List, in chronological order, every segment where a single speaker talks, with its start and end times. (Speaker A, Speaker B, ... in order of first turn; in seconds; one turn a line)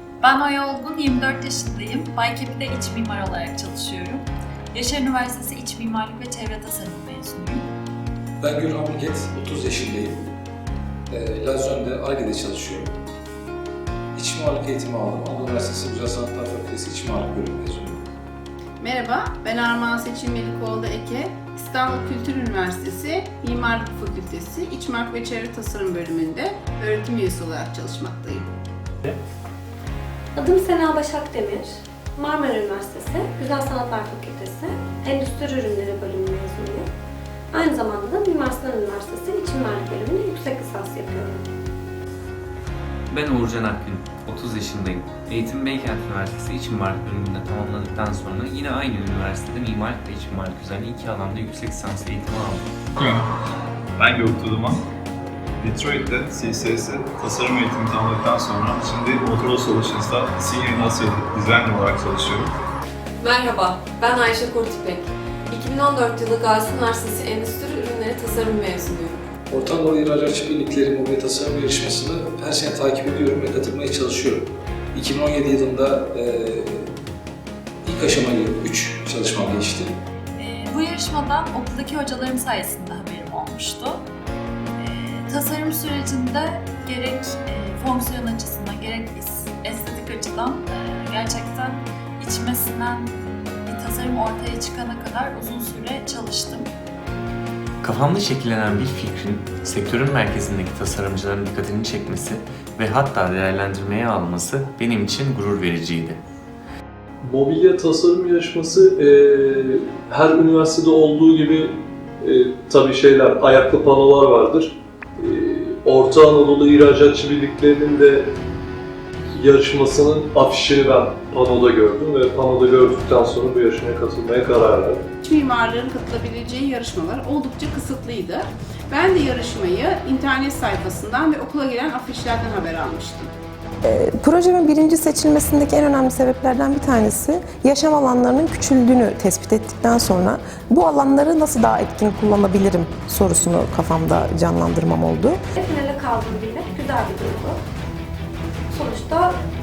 Speaker A: 0.2-7.6
Speaker B: 8.4-10.2
Speaker B: 11.1-12.9
Speaker B: 14.2-18.0
Speaker C: 18.8-28.5
Speaker D: 30.4-36.9
Speaker D: 37.5-41.4
Speaker E: 43.1-52.6
Speaker F: 53.0-53.2
Speaker F: 54.0-54.8
Speaker F: 55.6-62.5
Speaker G: 63.2-69.2
Speaker B: 69.5-76.7
Speaker B: 77.8-79.9
Speaker A: 80.3-84.0
Speaker A: 84.8-96.7
Speaker E: 97.8-106.2
Speaker H: 107.2-118.3
Speaker H: 119.3-125.0
Speaker C: 125.2-133.3
Speaker I: 133.8-145.4
Speaker D: 145.6-147.6
Speaker D: 148.7-149.3